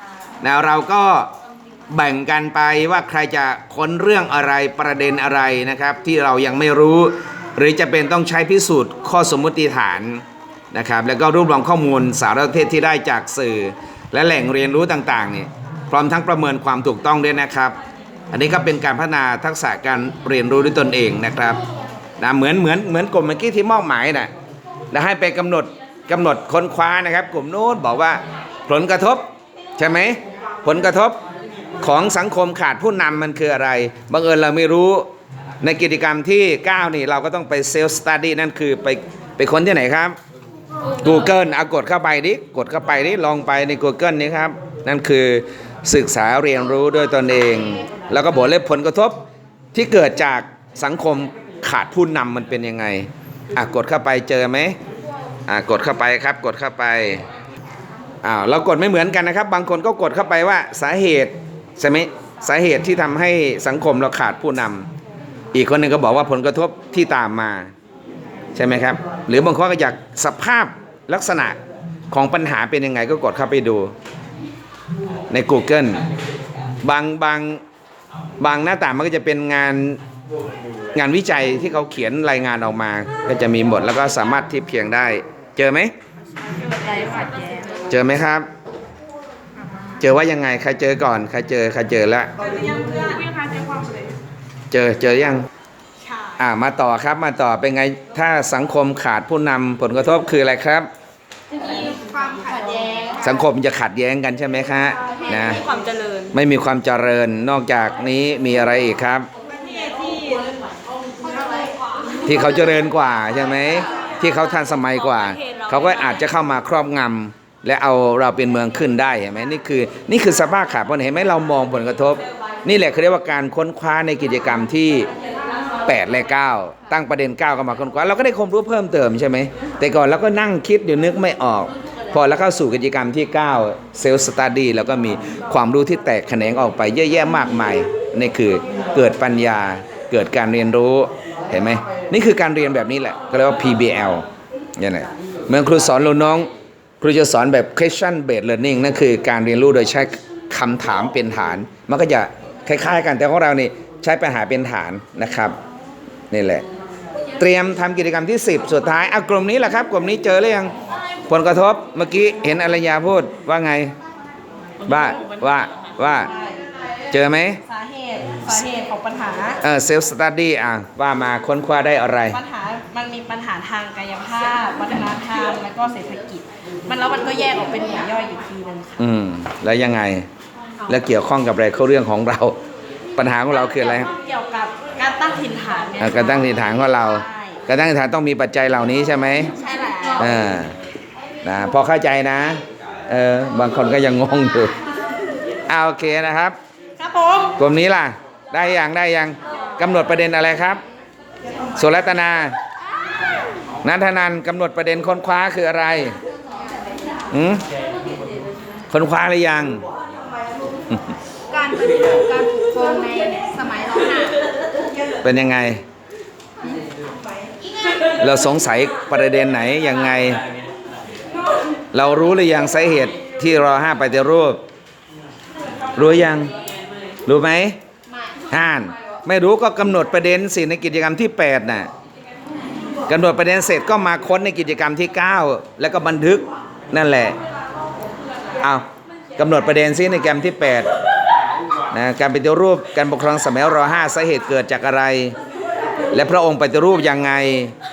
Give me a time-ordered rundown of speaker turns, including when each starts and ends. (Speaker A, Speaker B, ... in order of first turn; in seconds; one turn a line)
Speaker A: 0.4-1.3
Speaker A: 1.9-17.8
Speaker A: 18.3-21.6
Speaker A: 22.2-24.3
Speaker A: 24.9-29.2
Speaker A: 29.8-31.2
Speaker A: 31.8-35.1
Speaker A: 35.6-40.1
Speaker A: 41.0-49.2
Speaker A: 49.7-54.8
Speaker A: 55.5-57.2
Speaker A: 58.2-64.9
Speaker A: 65.5-67.7
Speaker A: 68.5-71.6
Speaker A: 72.1-73.9
Speaker A: 75.3-76.0
Speaker A: 76.8-77.6
Speaker A: 78.4-80.0
Speaker A: 80.9-85.9
Speaker B: 86.5-87.8
Speaker A: 87.9-88.5
Speaker A: 90.0-92.3
Speaker B: 92.7-94.0
Speaker A: 94.7-95.5
Speaker A: 96.4-100.9
Speaker B: 101.6-103.2
Speaker A: 103.2-105.6
Speaker A: 106.3-109.3
Speaker A: 112.2-125.1
Speaker A: 125.8-144.2
Speaker A: 144.8-146.5
Speaker A: 147.0-155.6
Speaker A: 156.3-156.6
Speaker A: 157.4-160.7
Speaker A: 161.3-163.9
Speaker A: 164.8-166.3
Speaker B: 164.9-165.4
Speaker B: 166.2-166.6
Speaker A: 167.1-167.6
Speaker B: 167.7-169.6
Speaker A: 169.6-172.4
Speaker B: 172.3-179.0
Speaker A: 179.0-180.3
Speaker A: 180.9-182.6
Speaker A: 183.2-184.1
Speaker B: 183.6-187.6
Speaker A: 186.0-189.5
Speaker B: 189.5-190.3
Speaker A: 190.2-190.8
Speaker A: 191.4-194.7
Speaker A: 195.7-196.6
Speaker B: 197.0-197.6
Speaker A: 197.6-200.8
Speaker A: 201.8-202.5
Speaker A: 203.8-206.2
Speaker A: 207.3-207.6
Speaker A: 208.9-209.8
Speaker C: 211.5-214.3
Speaker B: 213.2-213.6
Speaker A: 215.2-215.8
Speaker A: 218.2-220.4
Speaker A: 221.9-224.6
Speaker A: 225.9-226.5
Speaker A: 227.2-227.8
Speaker A: 228.5-231.9
Speaker A: 233.1-237.4
Speaker A: 238.6-240.9
Speaker A: 241.9-245.3
Speaker A: 246.1-247.7